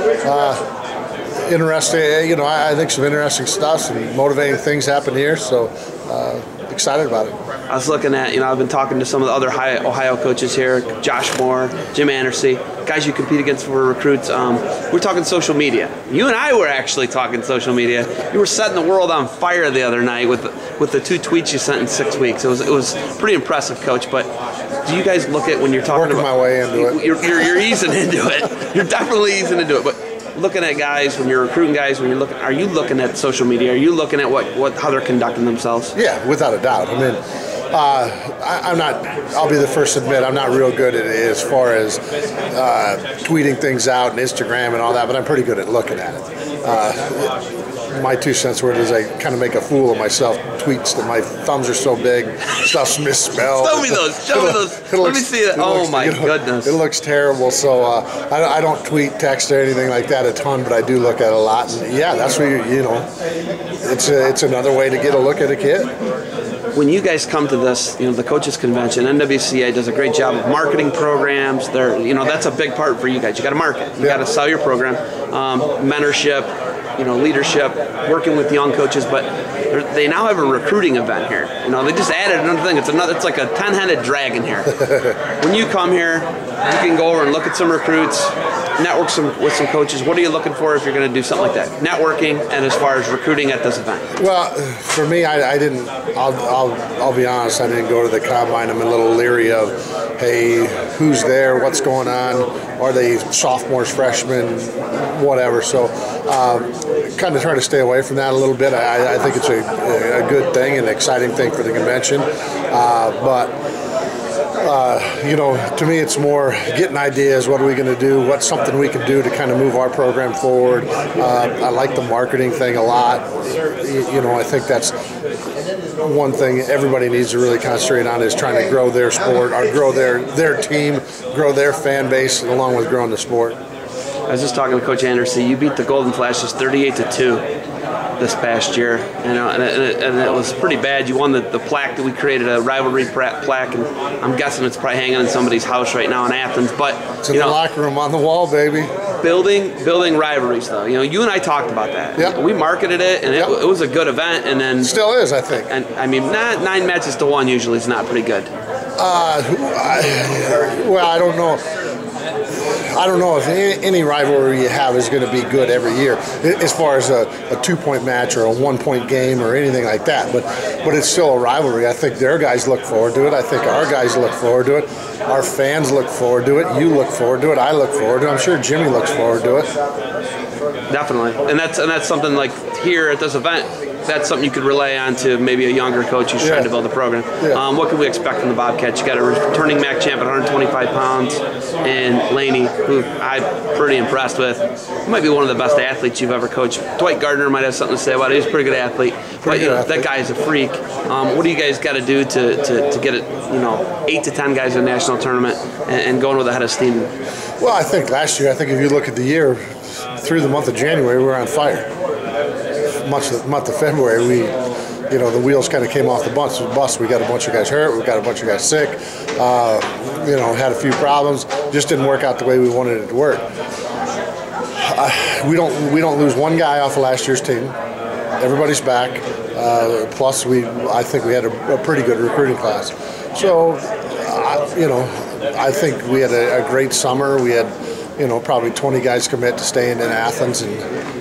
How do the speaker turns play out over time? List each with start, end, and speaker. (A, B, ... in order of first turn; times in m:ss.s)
0:00.2-0:00.6 A
0:01.5-0:07.4 A
0:07.7-0:24.3 B
0:24.8-0:36.0 B
0:25.9-0:27.0 A
0:36.0-0:37.2 A
0:37.7-0:42.0 A
0:42.5-0:47.3 A
0:48.0-1:03.1 A
0:53.4-0:56.8 B
1:03.8-1:05.9 A
1:06.7-1:24.8 B
1:25.4-1:34.1 B
1:34.2-1:53.6 A
1:54.6-2:04.9 A
2:06.0-2:13.6 A
2:14.3-2:17.4 B
2:18.2-2:27.6 B
2:27.2-2:28.9 A
2:29.2-2:35.0 B
2:34.8-2:35.7 A
2:35.7-2:38.5 B
2:39.0-2:41.6 A
2:42.9-2:59.7 A
3:00.9-3:27.1 B
3:06.4-3:06.8 A
3:19.4-3:20.1 A
3:27.6-3:29.6 A
3:30.2-3:31.9 A
3:33.1-3:34.5 A
3:35.1-3:43.4 A
3:44.8-3:47.8 A
3:48.4-4:00.9 A